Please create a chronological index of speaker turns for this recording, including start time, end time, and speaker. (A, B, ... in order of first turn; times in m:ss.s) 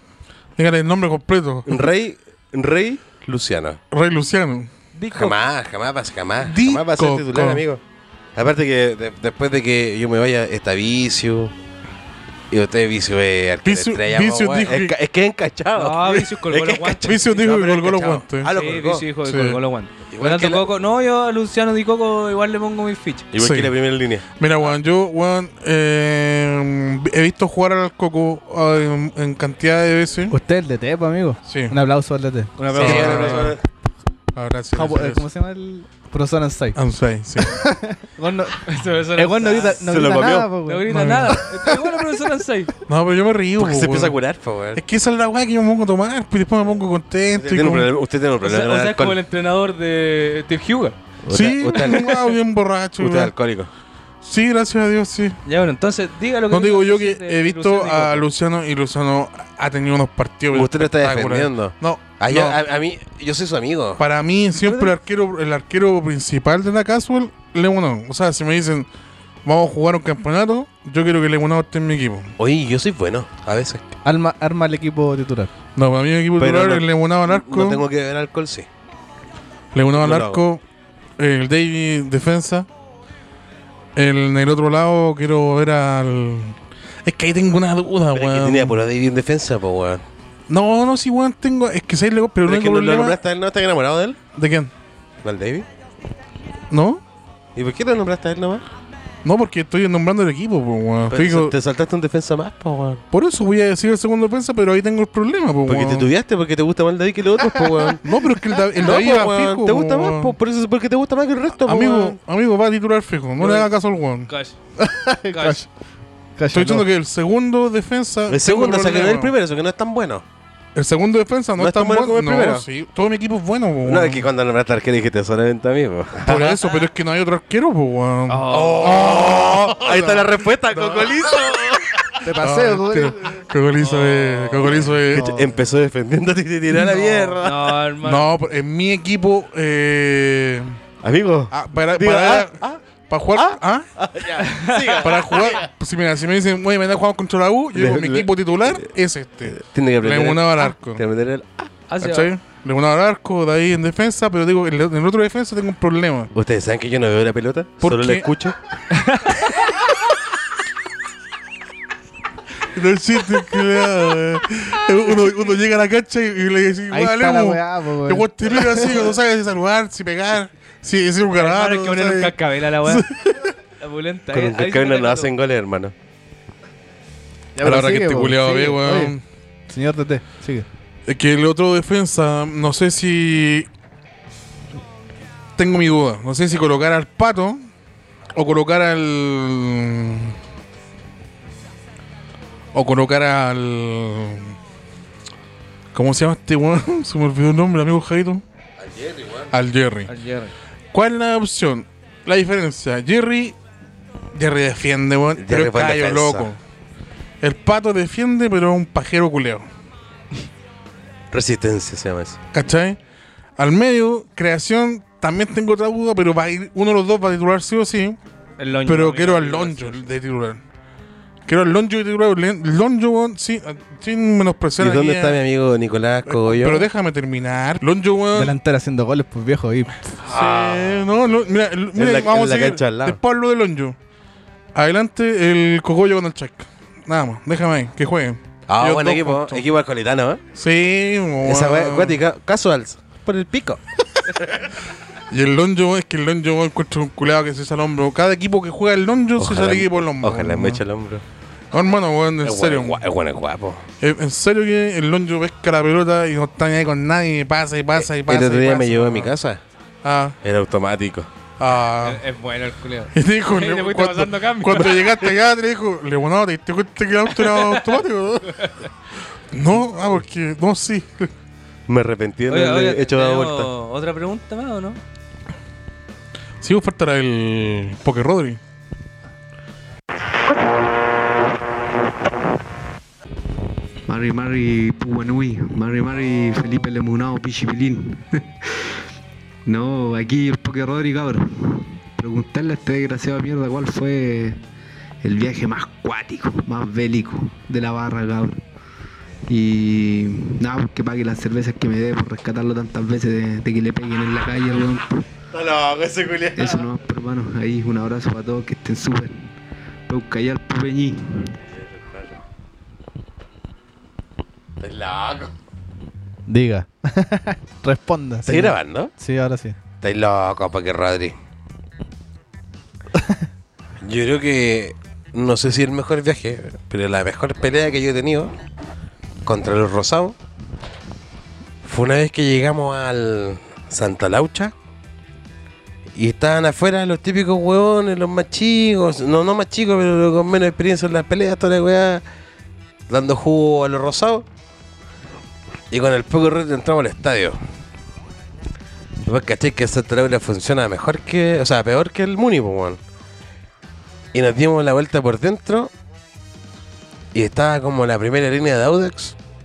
0:00.6-0:01.8 A
0:01.7-0:03.8 B
0:03.9-0:04.7 A
0:04.9-0:05.4 C
0:05.1-0:07.8 B
0:06.4-0:07.6 A
0:08.3-0:11.5 B
0:12.5-0:19.0 B
0:13.6-0:14.9 A
0:15.8-0:23.3 C
0:17.0-0:18.5 A
0:19.2-0:19.6 A
0:20.1-0:20.7 B
0:23.3-0:24.2 B
0:23.4-0:23.7 A
0:24.4-0:30.3 A
0:30.3-0:32.5 D
0:31.5-0:31.8 A
0:32.6-0:33.5 C
0:32.7-0:33.6 B
0:32.7-0:33.6 A
0:34.3-0:35.2 A
0:34.7-0:36.8 D
0:36.8-0:37.6 A
0:37.4-0:41.7 D
0:38.6-0:39.8 C
0:39.7-0:40.5 B
0:40.6-0:42.7 C
0:40.9-0:41.3 A
0:42.9-0:44.1 A
0:43.6-0:44.8 B
0:44.7-0:47.9 A
0:47.3-0:49.2 B
0:48.4-0:50.9 C
0:51.2-0:52.4 B
0:51.3-0:53.3 A
0:53.0-0:53.7 B
0:54.2-0:55.4 A
0:55.4-0:58.2 C
0:56.5-1:02.6 A
1:00.5-1:04.0 B
1:04.0-1:08.9 A
1:04.6-1:04.9 C
1:09.4-1:12.3 A
1:12.4-1:13.8 B
1:14.0-1:15.5 D
1:15.8-1:17.8 A
1:16.4-1:18.7 B
1:19.7-1:20.6 A
1:19.9-1:20.4 B
1:21.2-1:22.7 A
1:24.0-1:28.8 A
1:28.1-1:30.0 B
1:30.5-1:33.2 A
1:32.4-1:34.2 B
1:34.3-1:34.7 A
1:35.2-1:35.6 B
1:36.7-1:37.0 A
1:37.5-1:38.6 B
1:39.2-1:41.5 A
1:41.1-1:43.0 B
1:43.1-1:46.1 A
1:45.7-1:48.0 B
1:48.0-1:50.3 A
1:48.8-1:52.2 B
1:51.6-1:54.3 A
1:53.4-1:53.7 C
1:54.3-1:54.5 C
1:54.8-1:55.7 D
1:55.3-1:55.6 C
1:56.4-1:56.9 D
1:56.5-1:59.3 A
1:58.3-2:00.2 B
2:00.7-2:04.2 A
2:01.6-2:02.6 B
2:03.8-2:06.6 B
2:06.2-2:11.5 A
2:08.3-2:09.1 C
2:08.5-2:12.0 B
2:12.2-2:13.2 D
2:12.4-2:15.3 A
2:13.8-2:14.9 C
2:14.8-2:17.8 B
2:17.0-2:18.3 C
2:18.0-2:20.8 A
2:21.0-2:22.8 B
2:21.5-2:23.8 A
2:23.3-2:25.7 B
2:24.5-2:25.4 C
2:25.0-2:31.0 A
2:27.7-2:28.9 B
2:29.5-2:31.7 B
2:31.9-2:32.3 C
2:32.0-2:36.3 A
2:36.3-2:38.6 B
2:37.8-2:38.2 A
2:39.1-2:39.4 C
2:42.7-2:53.5 A
2:46.9-2:49.0 D
2:51.3-2:53.1 C
2:53.8-2:55.3 C
2:54.3-2:55.9 B
2:57.6-2:59.1 D
2:57.6-2:59.2 A
2:59.7-3:00.6 D
3:01.1-3:03.7 A
3:05.6-3:07.6 A
3:08.3-3:10.3 A
3:12.7-3:14.5 A
3:15.9-3:18.4 A
3:18.8-3:19.5 B
3:19.5-3:20.1 A
3:20.1-3:20.5 C
3:20.9-3:23.6 A
3:24.3-3:26.6 A
3:25.4-3:26.5 B
3:27.4-3:29.6 A
3:31.3-3:32.4 B
3:32.5-3:33.0 A
3:33.6-3:38.2 A
3:38.6-3:40.0 C
3:38.8-3:40.6 A
3:41.4-3:45.4 A
3:44.8-3:46.9 B
3:46.3-3:48.6 A
3:48.3-3:50.0 D
3:50.2-3:54.0 A
3:50.2-3:51.1 B
3:51.9-3:53.2 B
3:54.7-3:59.6 A
3:58.7-4:00.4 B
4:00.6-4:02.2 A
4:01.4-4:03.8 B
4:05.3-4:10.8 A
4:09.4-4:11.2 B
4:11.7-4:13.0 A
4:12.4-4:13.9 B
4:14.0-4:19.3 A
4:17.9-4:19.6 B
4:20.0-4:20.4 A
4:20.4-4:21.3 B
4:21.6-4:22.2 A
4:22.0-4:25.3 C
4:23.1-4:28.6 A
4:27.3-4:28.0 C
4:29.5-4:31.3 A
4:31.9-4:33.7 B
4:32.5-4:35.0 C
4:36.6-4:38.6 A
4:44.1-4:48.4 E
4:49.6-4:54.6 E
4:55.2-4:58.6 E
4:59.5-5:05.2 E
5:05.5-5:06.8 B
5:06.6-5:09.5 E
5:10.1-5:11.5 E
5:11.7-5:12.4 B
5:14.8-5:15.5 B
5:16.5-5:19.8 D
5:18.4-5:19.1 B
5:20.0-5:21.3 B
5:24.0-5:28.5 B
5:29.4-5:30.4 B
5:31.8-5:34.7 B
5:36.1-5:42.2 B
5:43.1-5:44.4 B
5:45.9-5:47.6 B
5:49.2-5:53.0 B
5:54.3-5:55.9 B
5:57.3-5:59.4 B